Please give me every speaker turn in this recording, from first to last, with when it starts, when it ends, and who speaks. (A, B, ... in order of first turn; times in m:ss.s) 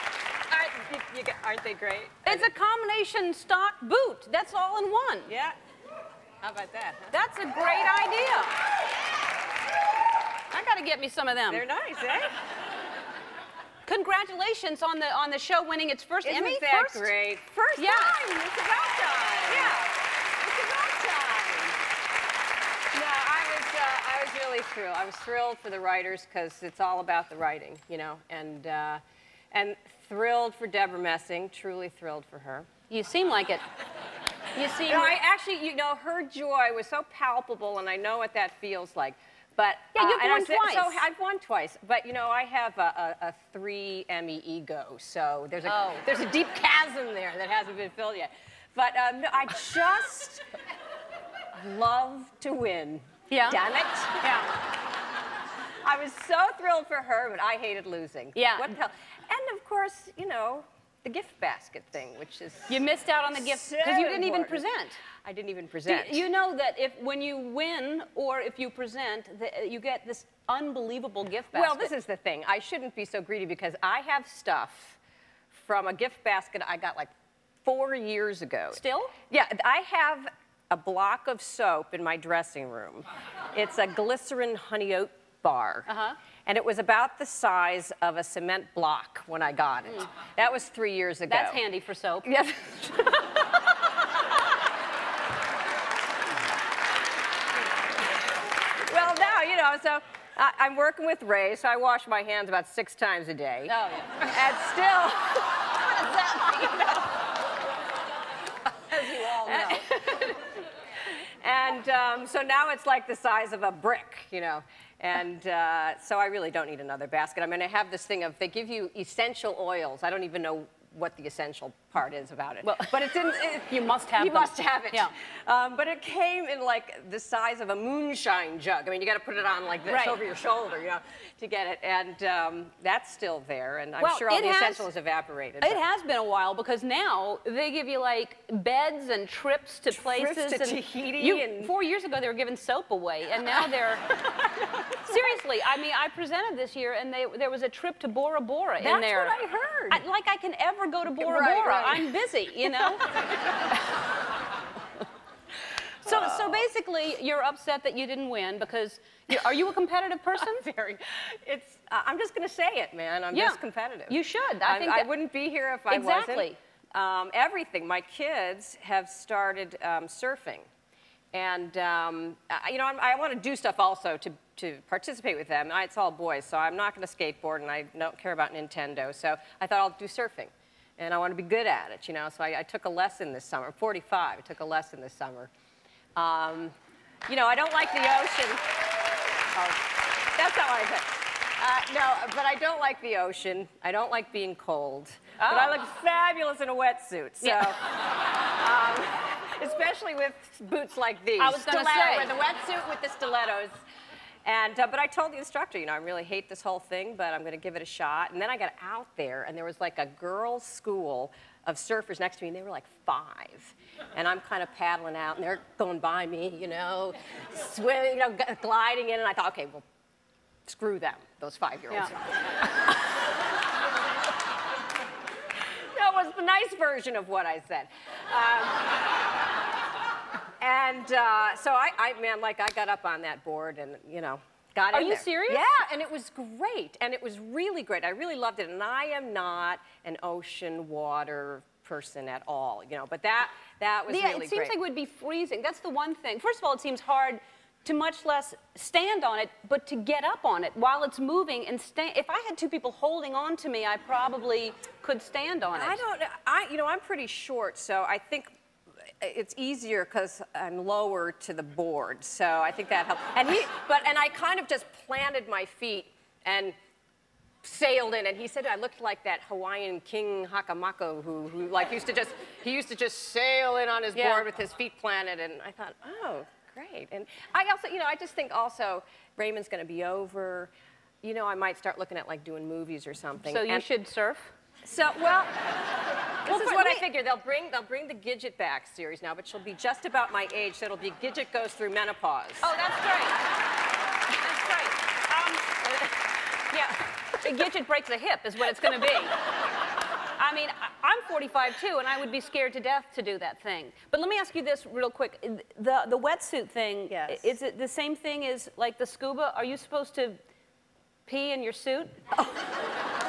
0:00.5-0:02.5 A
0:02.2-0:05.3 B
0:05.3-0:05.6 A
0:06.4-0:07.1 A
0:07.1-0:08.5 B
0:10.5-0:11.6 B
0:11.5-0:12.4 A
0:13.9-0:17.1 B
0:16.2-0:21.8 A
0:17.8-0:18.2 B
0:19.5-0:19.8 B
0:22.9-0:29.0 A
0:29.5-0:32.7 A
0:32.9-0:33.6 B
0:34.5-0:35.2 B
0:34.8-0:50.4 A
0:39.9-0:41.0 B
0:45.7-0:46.0 B
0:51.6-0:54.4 A
0:53.3-0:53.6 B
0:54.2-0:54.5 B
0:55.8-1:02.8 A
0:58.3-0:58.7 B
1:02.7-1:05.0 B
1:03.3-1:04.6 A
1:05.2-1:06.2 A
1:05.9-1:11.9 B
1:11.5-1:15.0 A
1:15.5-1:17.1 A
1:17.6-1:25.9 A
1:18.7-1:19.1 B
1:25.9-1:26.2 B
1:26.4-1:31.6 A
1:31.3-1:32.3 B
1:32.2-1:33.8 A
1:38.9-1:47.2 A
1:43.7-1:44.4 B
1:48.9-2:15.8 A
1:48.9-1:49.8 B
2:02.6-2:05.1 B
2:09.9-2:10.2 B
2:14.0-2:14.9 B
2:15.6-2:24.2 B
2:19.9-2:21.7 A
2:24.8-2:25.4 A
2:24.9-2:29.3 B
2:28.8-2:30.0 A
2:29.9-2:33.1 B
2:31.1-2:32.1 A
2:32.8-2:33.2 A
2:36.0-2:40.6 B
2:36.0-2:36.7 A
2:40.4-2:50.7 A
2:43.3-2:45.1 B
2:45.9-2:46.6 B
2:51.3-3:05.5 A
3:06.2-3:06.7 A
3:07.3-3:08.6 A
3:09.5-3:23.7 A
3:15.4-3:15.7 B
3:17.4-3:17.7 B
3:21.4-3:22.3 B
3:24.4-3:39.8 A
3:40.7-3:42.8 A
3:45.9-3:48.9 A
3:50.6-4:04.8 A
3:54.9-3:55.6 B
4:04.1-4:16.0 B
4:15.7-4:18.5 A
4:19.2-4:26.8 A
4:27.6-4:40.7 A
4:34.1-4:34.4 B
4:41.2-4:43.9 A
4:43.4-4:44.5 B
4:44.8-4:45.5 A
4:46.4-4:52.7 A
4:46.5-4:47.0 B
4:52.6-4:53.4 B
4:54.3-4:59.3 B
5:00.4-5:10.4 B
5:07.1-5:07.5 A
5:11.2-5:12.2 B